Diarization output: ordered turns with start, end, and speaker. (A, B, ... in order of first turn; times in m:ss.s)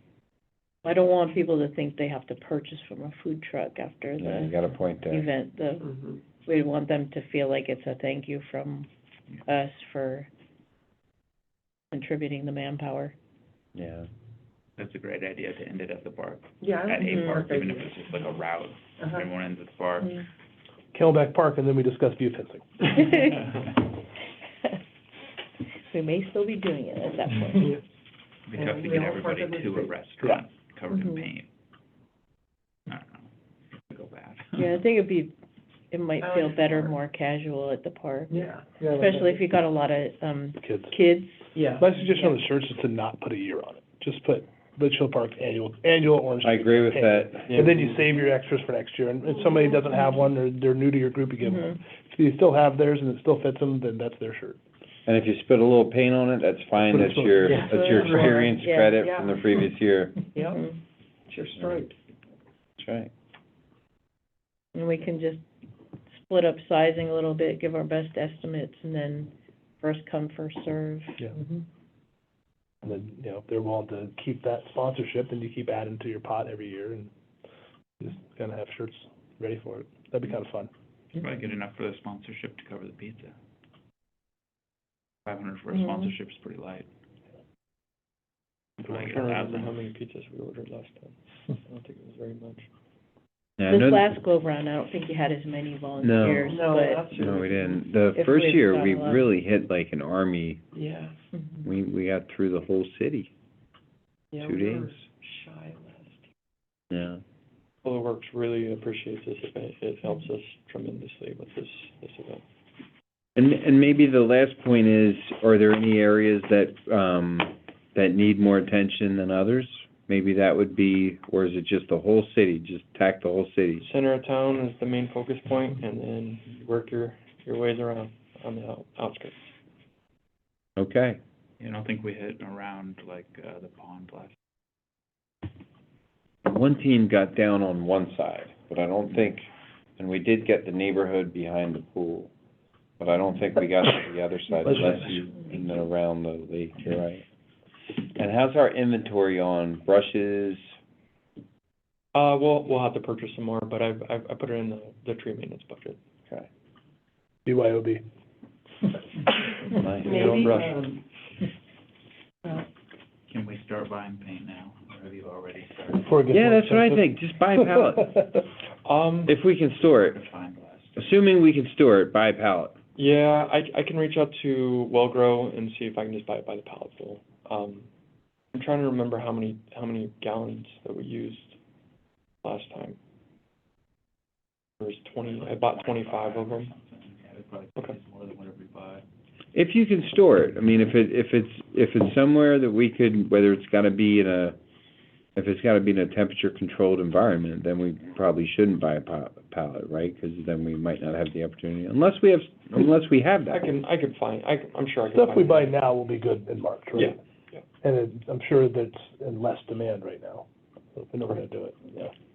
0:00.8-0:05.9 A
0:04.2-0:05.3 B
0:05.9-0:06.2 C
0:06.4-0:08.9 A
0:09.4-0:10.3 A
0:11.9-0:13.1 A
0:13.7-0:14.0 B
0:14.8-0:20.2 D
0:16.6-0:18.0 C
0:19.0-0:19.2 C
0:20.9-0:22.9 E
0:22.9-0:23.6 A
0:25.9-0:27.8 A
0:28.5-0:31.4 D
0:28.5-0:30.0 C
0:30.9-0:31.2 A
0:32.9-0:33.2 D
0:33.9-0:34.7 D
0:34.6-0:35.3 A
0:35.9-0:41.5 A
0:36.2-0:36.8 C
0:38.3-0:39.3 C
0:40.6-0:40.9 E
0:41.5-0:41.9 C
0:41.7-0:54.6 E
0:42.0-0:42.4 A
0:46.4-0:47.5 B
0:47.5-0:47.9 F
0:51.4-0:51.8 A
0:55.0-1:00.2 B
0:56.8-0:57.9 E
0:57.4-0:59.4 C
0:58.4-0:59.0 A
1:00.3-1:00.7 C
1:01.3-1:01.9 C
1:02.8-1:03.1 B
1:04.7-1:05.4 A
1:06.2-1:11.2 A
1:12.8-1:17.1 E
1:18.0-1:20.7 E
1:21.1-1:23.3 D
1:25.2-1:26.9 D
1:25.7-1:26.1 A
1:28.8-1:29.8 D
1:28.9-1:32.7 F
1:33.6-1:34.1 B
1:33.7-1:37.2 A
1:36.0-1:36.6 B
1:36.4-1:37.8 C
1:37.2-1:40.6 B
1:38.1-1:39.3 A
1:40.7-1:41.1 C
1:41.3-1:41.6 A
1:41.6-1:43.3 B
1:44.3-1:46.2 C
1:44.4-1:45.0 B
1:46.9-1:47.2 B
1:47.8-1:52.4 F
1:53.4-2:03.8 B
2:03.8-2:09.5 F
2:10.8-2:11.2 B
2:11.6-2:14.3 D
2:16.4-2:22.3 B
2:23.0-2:27.2 B
2:24.6-2:25.4 D
2:28.1-2:30.6 B
2:32.1-2:36.0 F
2:37.4-2:38.0 E
2:39.7-2:40.5 B
2:40.0-2:40.8 F
2:40.1-2:41.0 C
2:43.3-2:46.2 D
2:46.0-2:48.4 E
2:46.3-2:48.2 B
2:48.8-2:49.3 F
2:49.2-2:50.2 B
2:49.9-2:51.0 D
2:51.0-2:52.7 B
2:53.0-2:57.9 F
2:58.5-3:01.6 F
3:02.4-3:03.0 F
3:04.8-3:06.7 F
3:05.2-3:09.0 D
3:09.5-3:14.6 B
3:15.4-3:23.7 B
3:23.5-3:25.8 F
3:25.1-3:27.2 E
3:27.0-3:27.6 F
3:27.8-3:32.1 E